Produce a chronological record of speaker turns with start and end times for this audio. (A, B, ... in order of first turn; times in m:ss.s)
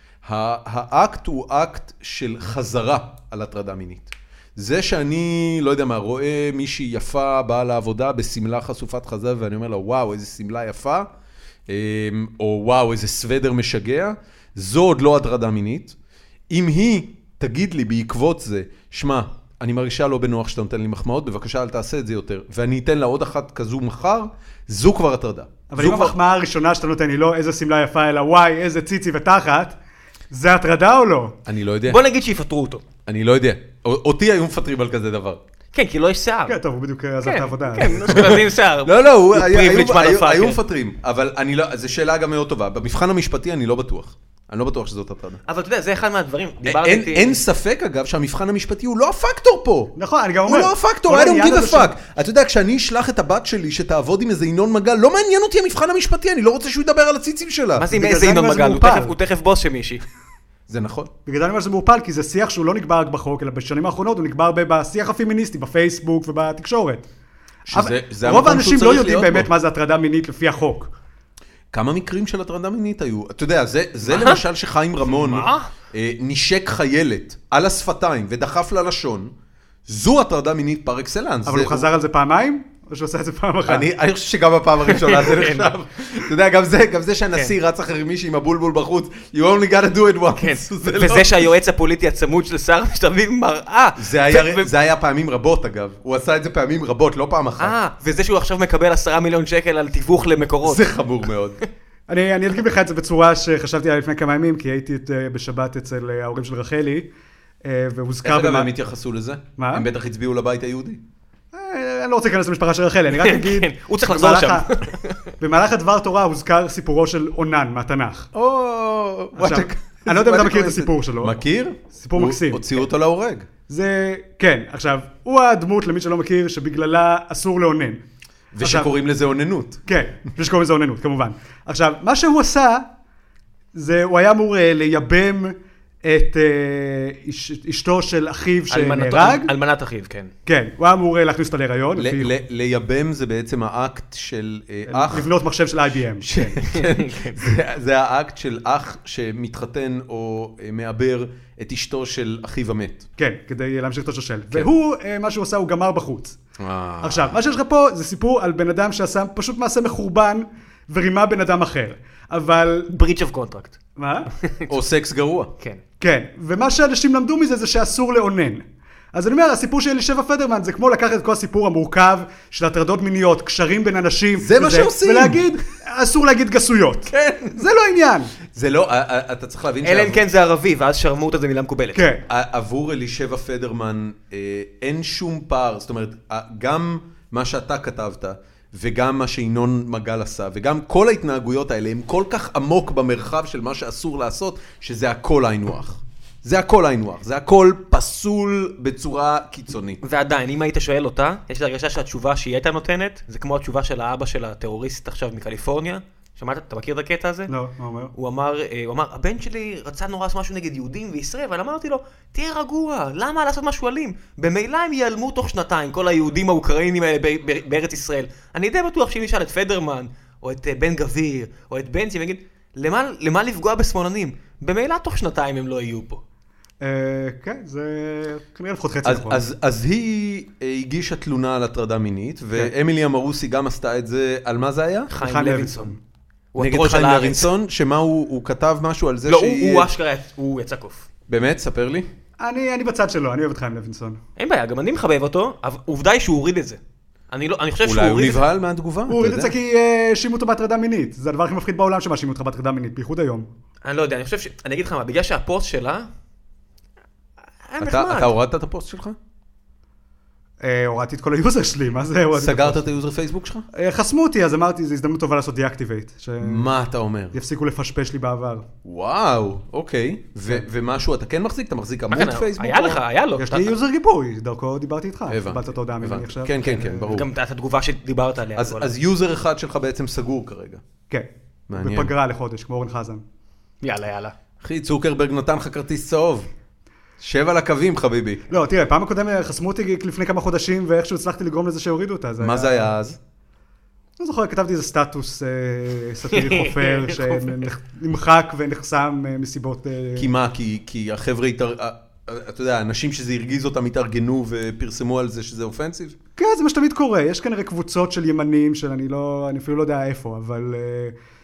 0:00.2-0:11.1 A
0:11.7-0:16.0 A
0:16.5-0:26.2 A
0:25.7-0:29.8 B
0:30.3-0:31.4 B
0:31.5-0:32.0 A
0:31.9-0:32.8 C
0:33.1-0:35.4 A
0:35.7-0:36.6 C
0:36.5-0:38.1 B
0:37.2-0:40.6 C
0:38.0-0:45.4 A
0:45.5-0:47.4 C
0:46.6-0:49.9 A
0:50.0-0:51.9 B
0:50.5-0:57.9 A
0:57.8-1:00.0 C
0:57.9-0:59.2 B
1:00.7-1:01.1 A
1:01.3-1:07.1 B
1:07.7-1:09.5 A
1:07.7-1:10.9 B
1:11.7-1:19.3 A
1:14.1-1:14.4 C
1:15.1-1:15.7 C
1:19.9-1:21.9 A
1:21.5-1:23.9 B
1:23.7-1:31.4 A
1:24.9-1:25.7 C
1:30.4-1:34.7 C
1:34.0-1:37.8 A
1:37.6-1:40.8 C
1:40.6-1:41.6 A
1:42.1-1:47.1 B
1:47.6-1:48.7 B
1:48.2-1:51.0 A
1:49.6-1:49.9 B
1:51.5-1:54.7 B
1:53.2-1:55.2 C
1:55.4-1:58.3 B
1:58.3-2:03.5 A
1:59.4-2:01.4 B
2:01.9-2:02.6 B
2:03.7-2:08.0 B
2:08.5-2:09.8 A
2:08.6-2:08.9 B
2:09.9-2:12.9 B
2:13.8-2:19.5 B
2:18.7-2:20.3 C
2:20.5-2:22.3 B
2:22.0-2:25.3 A
2:24.9-2:26.6 B
2:26.2-2:33.1 A
2:26.7-2:27.4 C
2:33.2-2:36.4 B
2:36.6-2:37.4 A
2:37.0-2:42.9 B
2:42.9-2:43.8 C
2:44.0-2:44.3 B
2:44.4-2:44.7 C
2:44.7-2:45.5 A
2:46.0-2:48.6 B
2:49.1-2:58.3 B
2:54.4-2:55.6 A
2:57.1-2:57.5 A
2:58.5-3:00.2 A
2:59.8-3:02.1 C
3:01.9-3:02.2 B
3:02.3-3:20.0 A
3:20.0-3:27.5 C
3:27.5-3:28.1 B
3:28.2-3:46.2 C
3:46.8-3:49.5 B
3:49.0-3:55.1 A
3:55.1-3:56.0 C
3:55.2-3:56.0 B
3:56.5-3:57.5 C
3:56.6-3:59.9 A
3:59.3-4:01.1 C
4:01.3-4:02.1 A
4:02.4-4:04.2 B
4:04.4-4:06.8 C
4:07.3-4:08.4 C
4:07.8-4:09.5 A
4:09.1-4:13.5 B
4:13.8-4:16.1 C
4:17.6-4:18.3 C
4:17.8-4:19.2 A
4:20.6-4:22.8 B
4:22.4-4:23.7 A
4:23.7-4:26.7 B
4:26.4-4:27.4 A
4:27.3-4:28.7 B
4:28.8-4:33.0 A
4:32.1-4:33.7 C
4:33.4-4:37.1 B
4:35.3-4:37.3 A
4:36.8-4:38.9 C
4:38.6-4:40.8 A
4:41.1-4:43.2 B
4:41.7-4:42.1 A
4:43.8-4:44.3 C
4:44.6-4:46.5 A
4:47.2-4:48.4 A
4:48.5-4:52.9 B
4:52.4-4:53.2 A
4:54.2-5:00.3 B
4:56.3-4:57.6 C
5:00.2-5:06.2 A
5:06.4-5:11.2 B